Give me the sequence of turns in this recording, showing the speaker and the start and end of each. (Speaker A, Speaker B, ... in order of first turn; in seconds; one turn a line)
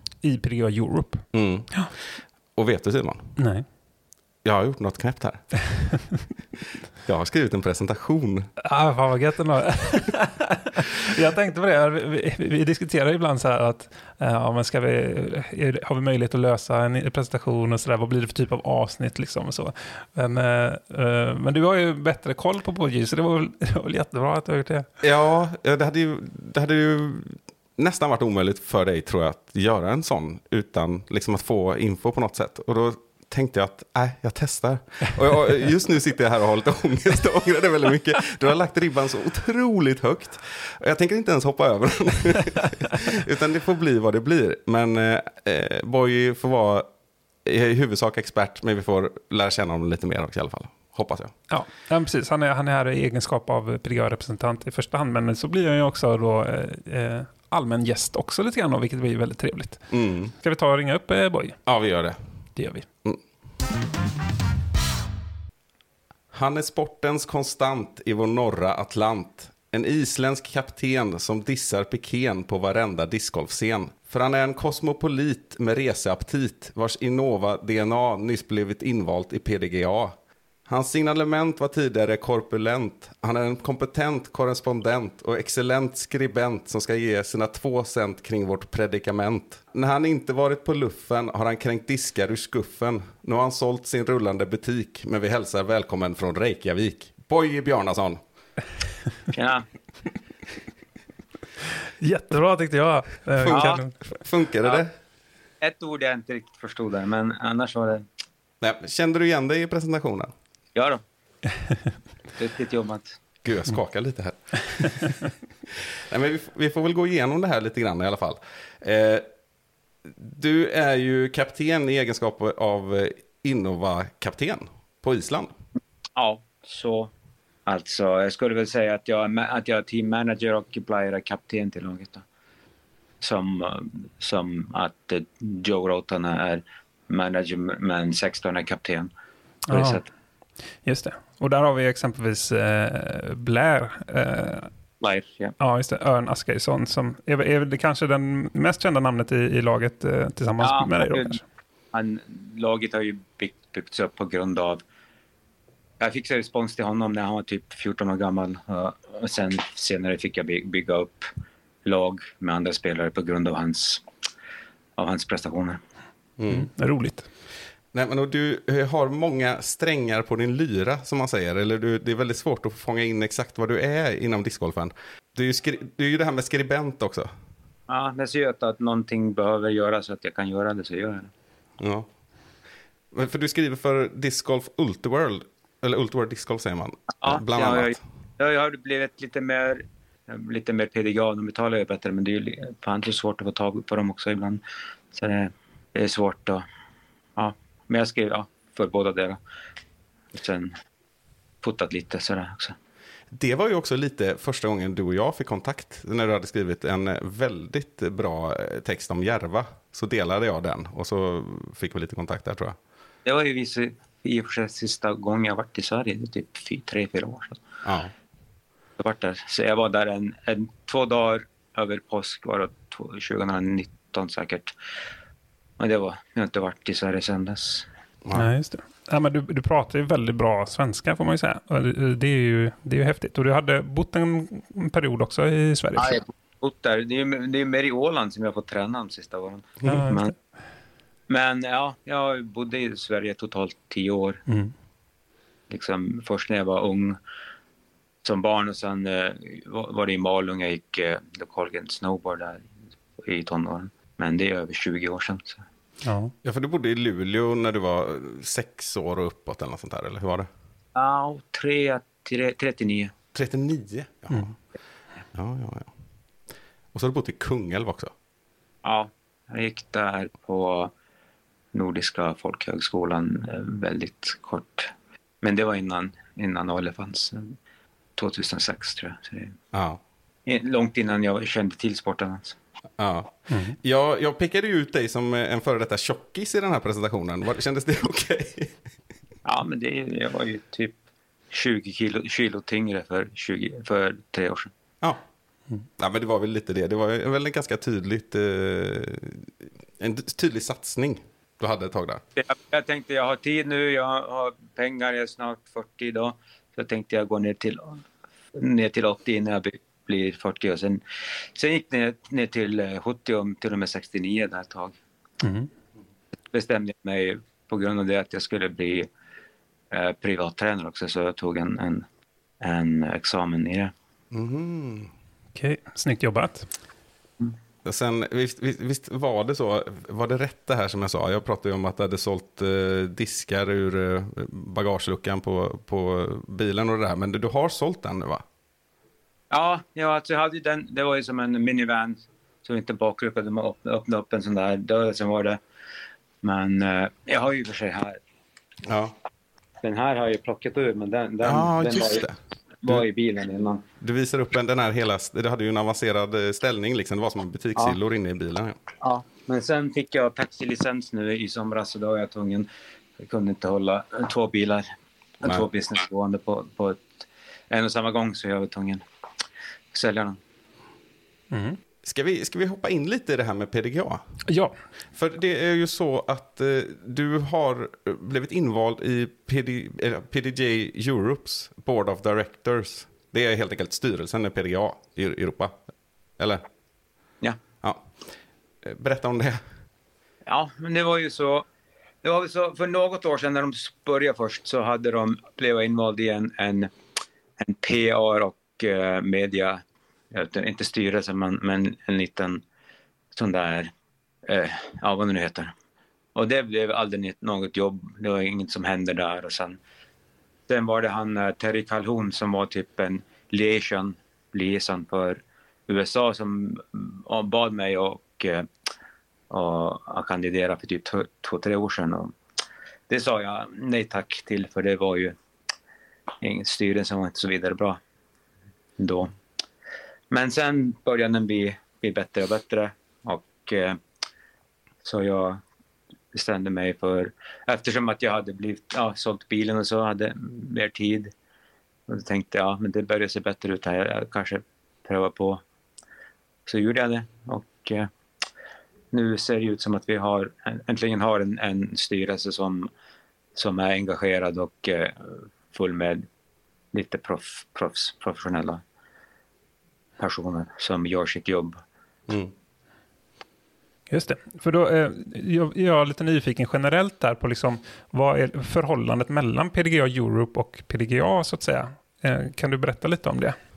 Speaker A: 0.2-1.9
Speaker B: 1.3-3.4
Speaker A: 3.4-3.7
Speaker B: 4.4-5.7
Speaker B: 7.0-8.5
Speaker A: 8.6-24.9
Speaker B: 25.0-46.9
Speaker B: 47.4-51.3
Speaker A: 51.5-61.7
Speaker B: 59.9-60.3
Speaker B: 61.6-62.2
Speaker A: 62.5-62.9
Speaker B: 66.3-98.2
Speaker C: 99.3-99.7
Speaker A: 102.0-104.1
Speaker B: 103.4-104.9
Speaker C: 103.5-103.8
Speaker C: 105.6-108.0
Speaker B: 108.6-110.3
Speaker C: 110.7-111.0
Speaker C: 112.3-113.2
Speaker B: 113.4-115.2
Speaker B: 115.7-119.3
Speaker B: 120.0-125.5
Speaker C: 126.2-127.1
Speaker C: 127.7-132.2
Speaker C: 133.2-139.1
Speaker C: 139.7-140.1
Speaker A: 139.7-140.0
Speaker A: 140.8-144.7
Speaker C: 145.0-145.6
Speaker A: 145.6-151.4
Speaker C: 150.6-151.4
Speaker C: 151.9-154.8
Speaker C: 156.0-161.3
Speaker C: 161.8-164.0
Speaker C: 165.0-165.8
Speaker B: 166.4-166.7
Speaker A: 166.5-167.3
Speaker B: 167.9-177.3
Speaker C: 177.9-181.3
Speaker B: 181.8-182.1
Speaker B: 183.1-188.0
Speaker C: 187.2-196.7
Speaker C: 197.3-199.4
Speaker C: 200.3-200.7
Speaker C: 201.6-202.8
Speaker B: 203.3-212.8
Speaker C: 213.2-217.6
Speaker B: 217.8-218.1
Speaker C: 219.0-224.7
Speaker C: 225.8-227.9
Speaker A: 228.3-236.2
Speaker C: 235.9-240.3
Speaker A: 239.8-240.2
Speaker C: 241.3-244.4
Speaker A: 244.5-244.7
Speaker C: 245.7-247.2
Speaker C: 248.2-252.7
Speaker C: 253.2-255.6
Speaker A: 256.0-256.3
Speaker B: 256.4-260.5
Speaker C: 260.9-263.1
Speaker B: 263.3-264.5
Speaker B: 265.3-265.9
Speaker B: 266.9-268.1
Speaker C: 268.8-270.9
Speaker C: 271.7-277.6
Speaker C: 278.1-279.6
Speaker B: 279.7-280.0
Speaker C: 280.4-282.6
Speaker B: 283.0-288.8
Speaker A: 283.5-283.8
Speaker C: 289.4-291.0
Speaker C: 291.5-294.7
Speaker B: 296.0-302.2
Speaker C: 302.4-311.0
Speaker C: 311.5-315.0
Speaker A: 315.4-315.7
Speaker C: 316.5-319.1
Speaker C: 319.9-322.1
Speaker C: 322.6-323.9
Speaker B: 324.3-325.1
Speaker A: 325.5-326.7
Speaker B: 327.8-338.4
Speaker C: 339.5-345.6
Speaker C: 346.4-348.2
Speaker B: 348.8-349.1
Speaker C: 349.8-352.2
Speaker B: 351.4-353.0
Speaker C: 352.8-353.8
Speaker B: 354.0-358.8
Speaker C: 359.0-362.7
Speaker C: 363.2-364.9
Speaker C: 365.4-369.0
Speaker C: 369.9-370.4
Speaker A: 371.5-371.8
Speaker B: 372.0-374.2
Speaker A: 374.5-374.7
Speaker B: 375.1-385.7
Speaker B: 387.8-388.1
Speaker B: 388.8-389.6
Speaker C: 390.5-391.7
Speaker C: 392.2-396.9
Speaker C: 397.6-402.6
Speaker C: 403.3-403.9
Speaker C: 404.4-405.7
Speaker C: 406.3-409.8
Speaker C: 410.7-418.7
Speaker C: 419.5-422.3
Speaker C: 423.1-425.4
Speaker C: 426.4-428.0
Speaker C: 429.0-429.3
Speaker C: 430.3-434.0
Speaker C: 435.0-435.6
Speaker C: 436.3-441.3
Speaker C: 442.1-445.6
Speaker C: 446.6-448.1
Speaker C: 449.1-452.9
Speaker C: 453.5-456.2
Speaker C: 456.9-458.8
Speaker C: 460.2-461.8
Speaker A: 464.1-473.5